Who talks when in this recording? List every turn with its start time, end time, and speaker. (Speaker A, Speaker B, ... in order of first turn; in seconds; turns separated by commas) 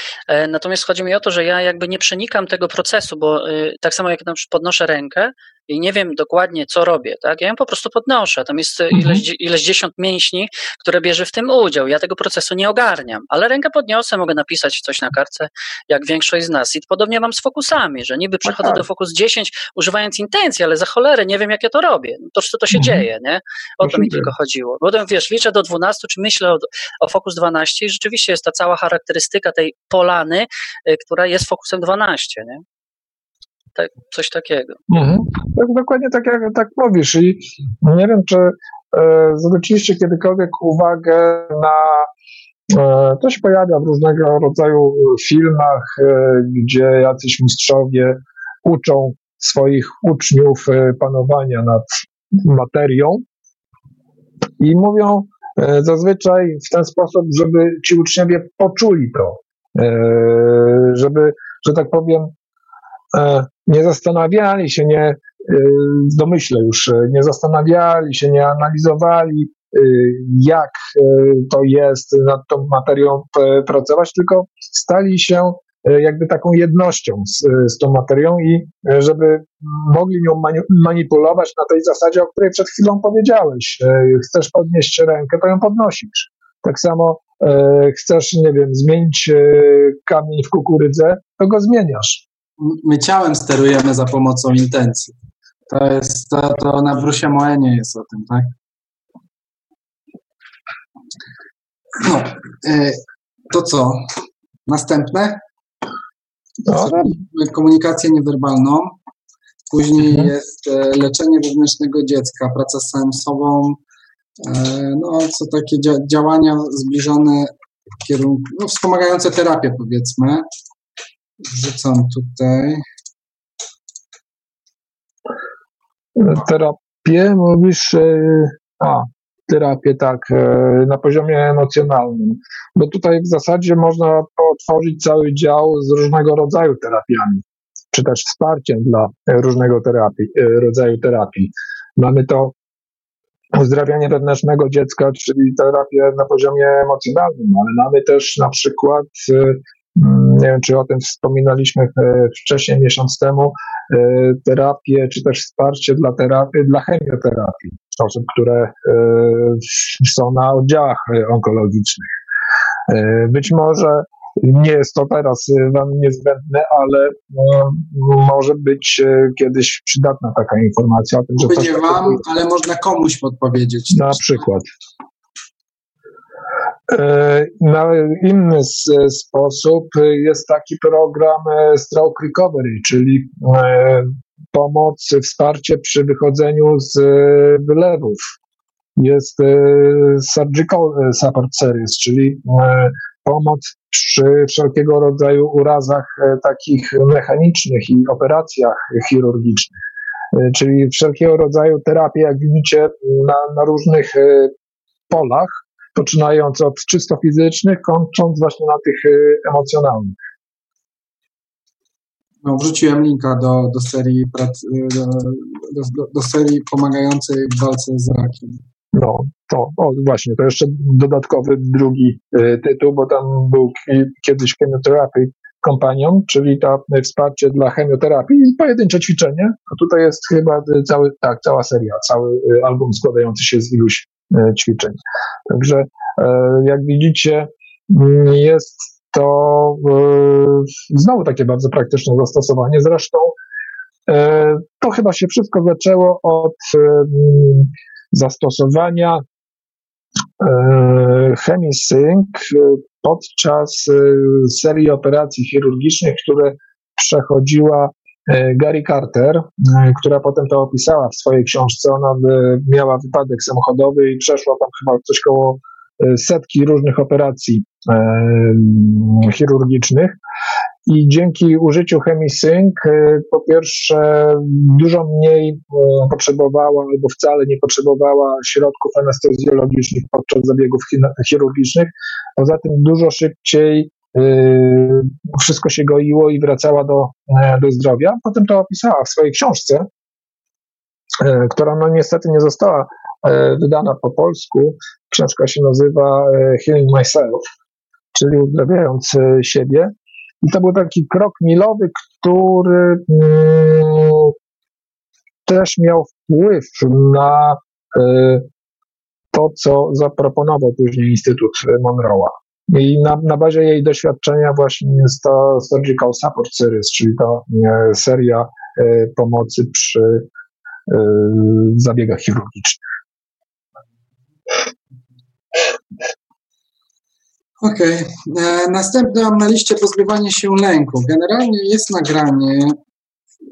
Speaker A: 0.3-32.6, Speaker B: 8.9-9.2, Speaker B: 18.4-18.9, Speaker B: 22.7-23.1, Speaker B: 23.8-24.3, Speaker A: 33.8-34.8, Speaker B: 34.9-42.1, Speaker B: 42.7-53.2, Speaker B: 54.6-62.3, Speaker B: 63.1-92.2, Speaker C: 92.6-95.2, Speaker C: 95.7-98.5, Speaker C: 102.0-104.1, Speaker C: 104.7-105.4, Speaker B: 106.7-107.2, Speaker C: 106.7-109.0, Speaker C: 109.7-113.8, Speaker C: 114.4-120.5, Speaker C: 121.5-122.8, Speaker B: 126.2-142.5, Speaker B: 143.5-162.1, Speaker B: 162.9-172.2, Speaker C: 171.4-174.4, Speaker B: 173.9-174.7, Speaker B: 176.9-188.3, Speaker B: 189.0-199.8, Speaker B: 200.3-204.5, Speaker B: 205.1-210.2, Speaker C: 212.4-218.6, Speaker B: 218.9-243.4, Speaker B: 244.1-249.2, Speaker B: 250.4-270.2, Speaker B: 270.9-289.9, Speaker B: 291.2-297.5, Speaker B: 298.1-304.3, Speaker B: 305.5-308.5, Speaker B: 309.3-320.2, Speaker B: 320.9-322.8, Speaker C: 327.6-332.8